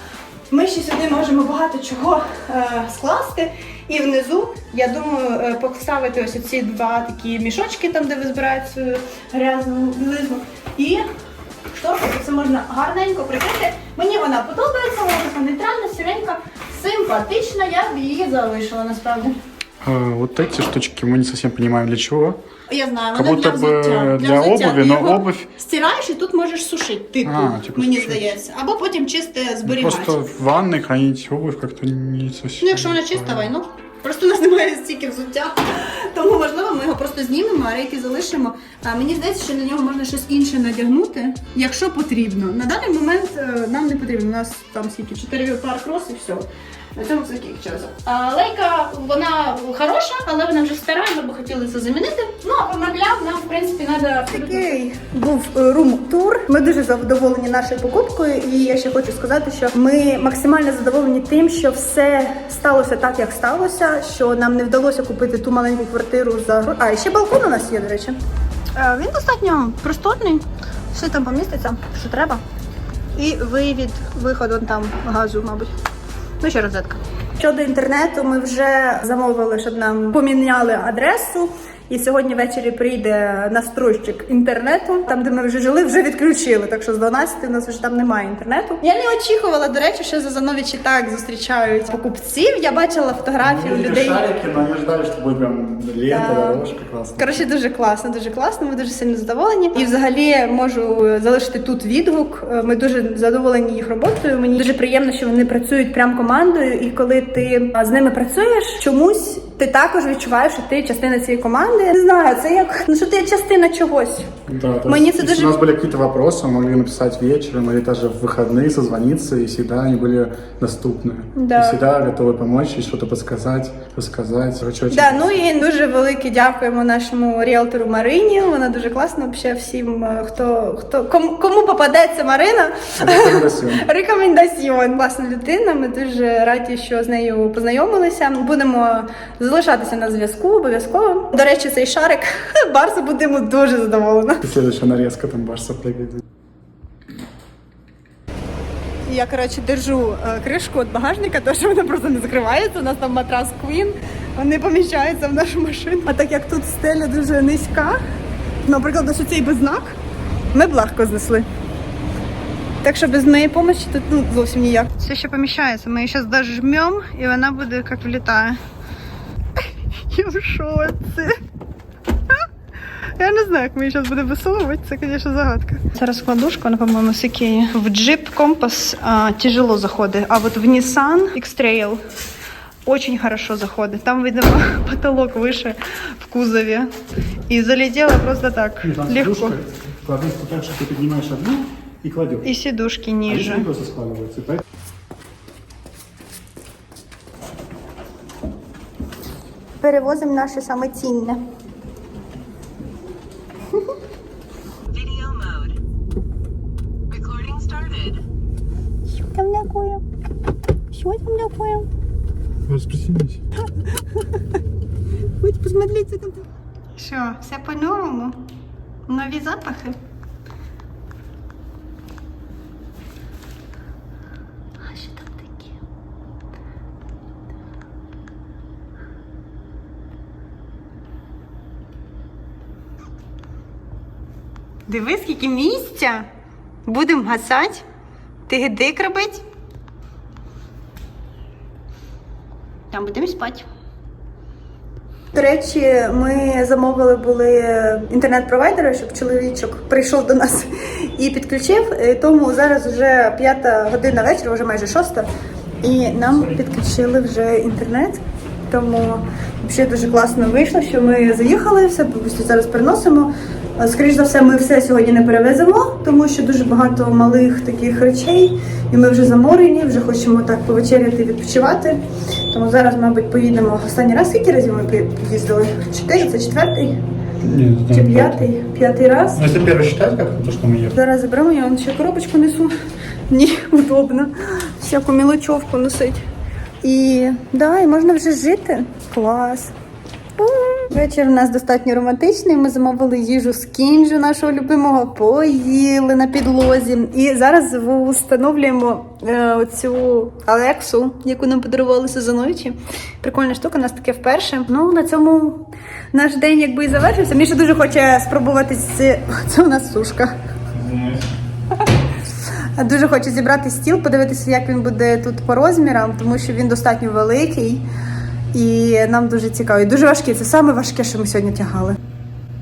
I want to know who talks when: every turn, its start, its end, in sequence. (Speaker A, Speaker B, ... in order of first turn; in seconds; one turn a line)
Speaker A: 0.5-11.1
Speaker A: 11.7-19.4
Speaker B: 19.8-22.4
Speaker A: 22.7-30.2
Speaker B: 23.1-25.5
Speaker B: 27.2-28.3
Speaker B: 29.7-33.5
Speaker A: 32.6-68.2
Speaker A: 68.8-72.4
Speaker A: 73.2-75.7
Speaker A: 76.4-94.2
Speaker B: 93.4-97.4
Speaker A: 96.1-96.6
Speaker A: 97.2-114.3
Speaker B: 114.5-125.3
Speaker A: 114.9-115.5
Speaker A: 121.3-121.8
Speaker A: 124.9-144.4
Speaker B: 133.0-133.9
Speaker B: 144.4-146.2
Speaker A: 149.1-158.0
Speaker A: 158.6-159.9
Speaker A: 160.5-161.5
Speaker A: 162.8-168.6
Speaker A: 169.6-171.4
Speaker A: 173.2-182.0
Speaker A: 182.9-186.9
Speaker A: 187.5-189.6
Speaker B: 188.8-192.5
Speaker A: 192.4-193.7
Speaker B: 193.3-194.6
Speaker A: 199.8-201.4
Speaker A: 204.9-205.8
Speaker A: 207.1-208.2
Speaker A: 209.1-210.0
Speaker A: 210.9-211.9
Speaker B: 212.7-213.4
Speaker A: 213.8-214.6
Speaker A: 215.4-218.4
Speaker A: 219.1-220.0
Speaker A: 224.8-225.7
Speaker A: 234.9-236.3
Speaker A: 236.9-237.8
Speaker A: 238.5-239.4
Speaker A: 242.9-243.7
Speaker A: 245.3-255.3
Speaker A: 255.8-277.0
Speaker B: 277.4-278.5
Speaker A: 277.9-279.4
Speaker B: 279.4-280.9
Speaker A: 280.9-282.7
Speaker A: 283.3-286.2
Speaker A: 286.8-289.7
Speaker A: 290.4-310.3
Speaker B: 310.7-311.2
Speaker A: 312.8-317.9
Speaker A: 318.5-322.0